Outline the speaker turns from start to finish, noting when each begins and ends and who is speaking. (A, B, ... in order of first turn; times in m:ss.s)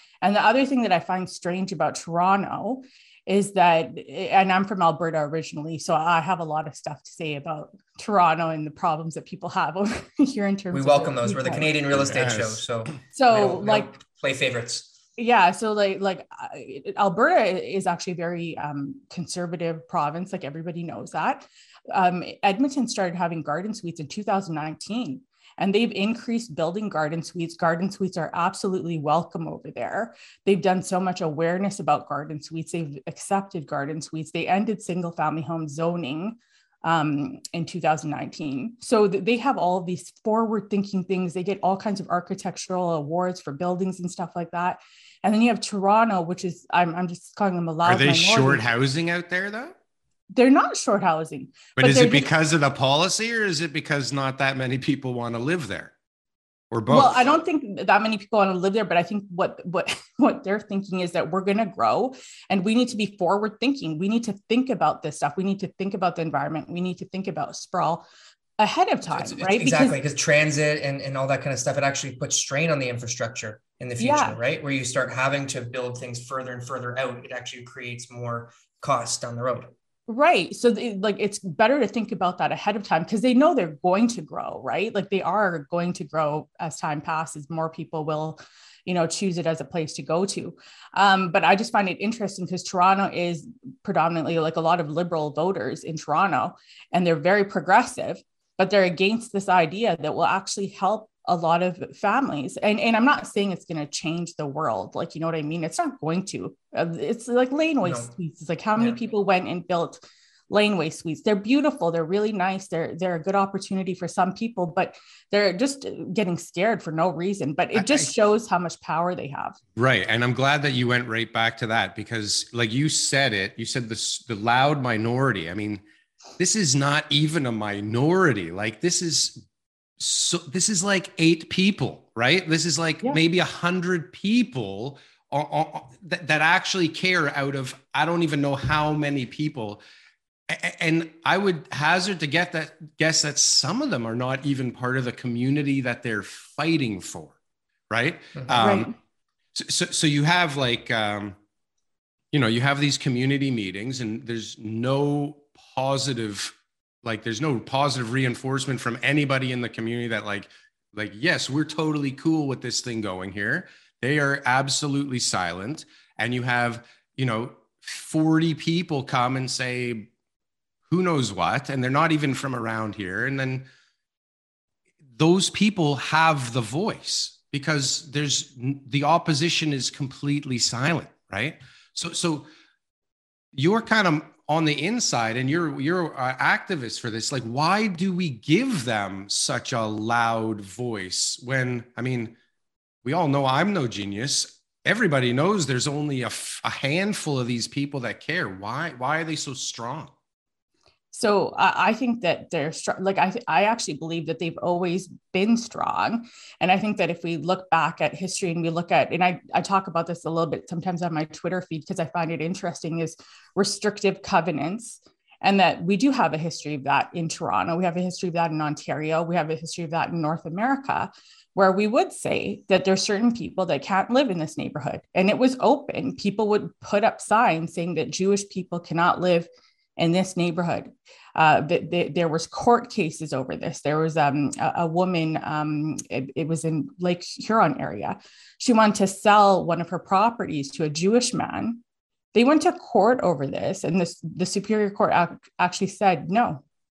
0:00.2-0:11.7 A
0:10.7-0:15.0 B
0:11.9-0:12.7 C
0:13.1-0:13.9 A
0:15.2-0:48.6 A
0:47.8-0:49.8 C
0:50.3-0:52.3 A
0:51.8-0:55.9 C
0:56.7-0:57.3 C
0:56.9-1:08.0 A
1:08.6-1:10.0 A
1:09.1-1:19.7 B
1:14.0-1:14.4 A
1:20.1-1:59.6 A
1:47.8-1:48.1 B
1:57.8-1:58.1 C
1:59.8-2:05.8 C
2:06.4-2:09.4 C
2:10.0-2:19.8 C
2:20.5-2:27.3 C
2:27.9-2:28.9 C
2:28.4-2:28.6 B
2:28.6-2:28.9 A
2:29.6-2:31.4 C
2:32.3-2:50.1 C
2:50.9-2:53.6 C
2:55.2-3:02.5 C
3:03.5-3:12.3 C
3:13.0-3:20.1 C
3:21.1-4:01.8 A
4:02.3-4:06.6 A